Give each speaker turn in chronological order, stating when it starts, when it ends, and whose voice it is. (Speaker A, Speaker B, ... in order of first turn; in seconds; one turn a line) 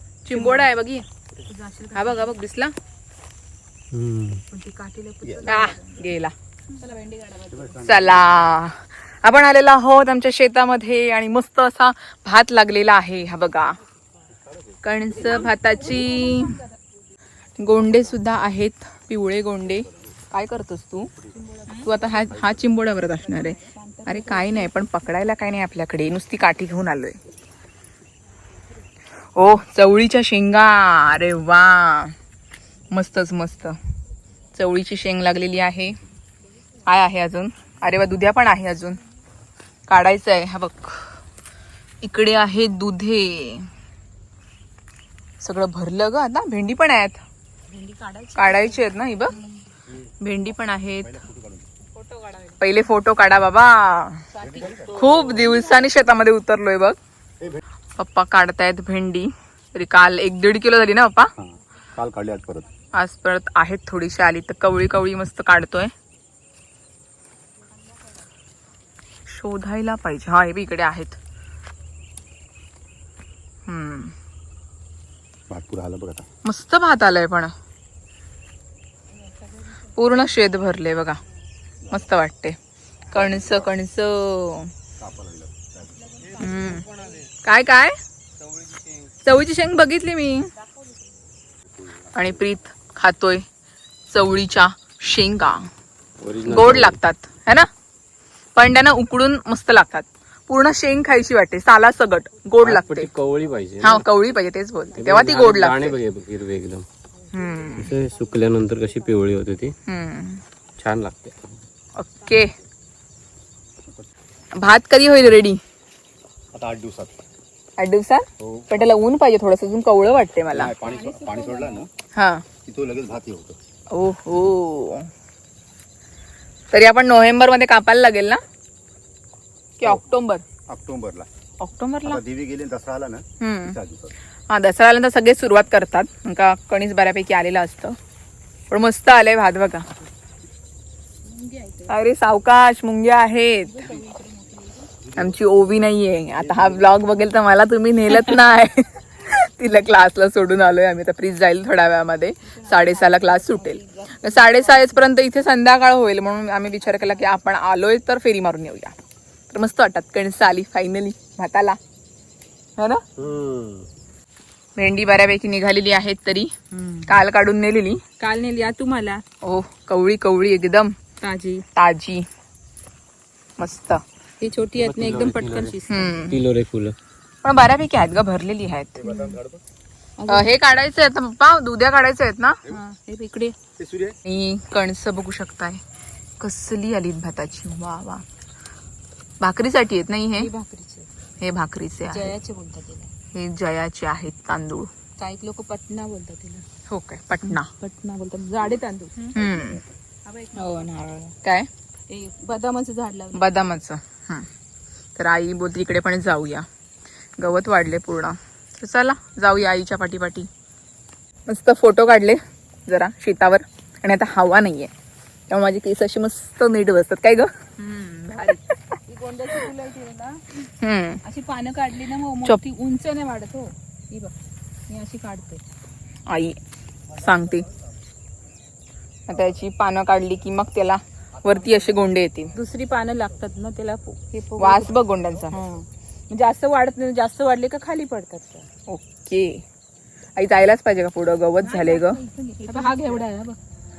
Speaker A: 0.2-1.1
Speaker B: 0.3-0.6
Speaker B: 1.5-2.3
Speaker A: 1.9-2.7
Speaker C: 3.9-4.4
Speaker B: 4.5-5.9
Speaker A: 5.4-6.3
Speaker B: 6.7-7.6
Speaker D: 7.5-8.4
Speaker A: 7.8-13.8
Speaker A: 14.8-16.6
Speaker A: 17.6-21.1
Speaker B: 21.6-21.9
Speaker A: 21.8-27.2
Speaker D: 22.2-22.6
Speaker B: 23.3-24.7
Speaker A: 29.4-32.1
Speaker A: 32.9-33.8
Speaker A: 34.5-36.0
Speaker A: 36.9-39.0
Speaker A: 39.9-41.1
Speaker A: 42.0-43.7
Speaker A: 45.4-47.2
Speaker B: 47.7-49.6
Speaker A: 48.3-49.4
Speaker A: 50.2-51.2
Speaker D: 51.0-51.7
Speaker B: 51.9-52.6
Speaker A: 52.6-57.0
Speaker B: 54.4-55.6
Speaker D: 54.4-55.1
Speaker A: 58.0-61.3
Speaker D: 61.4-62.7
Speaker A: 62.9-65.9
Speaker A: 69.3-71.2
Speaker A: 73.7-74.1
Speaker D: 75.5-76.3
Speaker A: 76.4-77.5
Speaker A: 79.8-81.2
Speaker A: 81.9-82.5
Speaker A: 83.1-84.7
Speaker D: 85.0-86.2
Speaker A: 86.3-86.9
Speaker A: 87.4-88.0
Speaker A: 89.2-90.5
Speaker A: 92.1-93.4
Speaker A: 94.1-95.7
Speaker C: 96.2-97.0
Speaker A: 96.5-97.7
Speaker A: 98.5-103.1
Speaker C: 102.6-104.0
Speaker A: 103.8-106.0
Speaker C: 104.9-106.8
Speaker A: 107.3-107.9
Speaker C: 107.8-109.7
Speaker A: 109.8-110.4
Speaker C: 110.8-111.4
Speaker A: 112.0-112.5
Speaker A: 114.5-115.6
Speaker D: 116.5-117.2
Speaker A: 117.8-120.7
Speaker D: 118.4-118.7
Speaker D: 120.5-121.9
Speaker A: 122.1-122.4
Speaker D: 122.6-123.6
Speaker A: 123.9-125.1
Speaker A: 126.7-128.4
Speaker A: 129.8-130.4
Speaker D: 130.7-131.3
Speaker A: 131.6-132.2
Speaker D: 132.0-134.1
Speaker A: 133.4-133.8
Speaker A: 134.5-137.9
Speaker A: 138.7-139.8
Speaker B: 141.2-141.9
Speaker A: 141.9-143.9
Speaker B: 143.7-144.9
Speaker D: 145.1-145.3
Speaker A: 145.1-158.9
Speaker D: 146.4-146.8
Speaker B: 152.5-154.9
Speaker A: 159.5-161.8
Speaker C: 163.2-163.9
Speaker A: 164.8-166.5
Speaker B: 166.7-167.1
Speaker A: 167.1-168.0
Speaker B: 168.2-169.2
Speaker A: 169.4-170.9
Speaker B: 171.2-171.6
Speaker A: 171.7-172.2
Speaker A: 173.6-174.0
Speaker B: 174.4-176.1
Speaker C: 174.8-176.9
Speaker A: 175.9-176.4
Speaker A: 177.4-179.0
Speaker D: 179.0-179.6
Speaker B: 179.1-179.4
Speaker B: 180.2-180.5
Speaker A: 180.3-182.6
Speaker B: 182.7-183.6
Speaker D: 183.8-184.2
Speaker A: 184.2-185.8
Speaker A: 186.4-188.2
Speaker A: 189.4-190.5
Speaker B: 190.4-191.1
Speaker A: 191.4-192.3
Speaker B: 192.1-193.1
Speaker A: 193.3-194.9
Speaker B: 195.2-196.7
Speaker A: 196.9-197.7
Speaker B: 197.4-199.4
Speaker A: 199.3-199.8
Speaker B: 200.2-201.3
Speaker A: 201.4-201.7
Speaker B: 202.1-203.4
Speaker A: 203.3-204.5
Speaker A: 205.1-206.7
Speaker A: 207.4-210.5
Speaker A: 211.5-214.9
Speaker A: 215.5-217.5
Speaker B: 217.8-220.4
Speaker A: 220.6-221.2
Speaker B: 221.2-224.3
Speaker B: 224.9-225.6
Speaker A: 226.3-226.6
Speaker A: 227.1-227.7
Speaker A: 229.3-232.5
Speaker B: 232.5-234.9
Speaker A: 234.6-235.6
Speaker B: 235.5-238.7
Speaker A: 238.9-239.6
Speaker A: 240.3-243.2
Speaker B: 241.6-243.6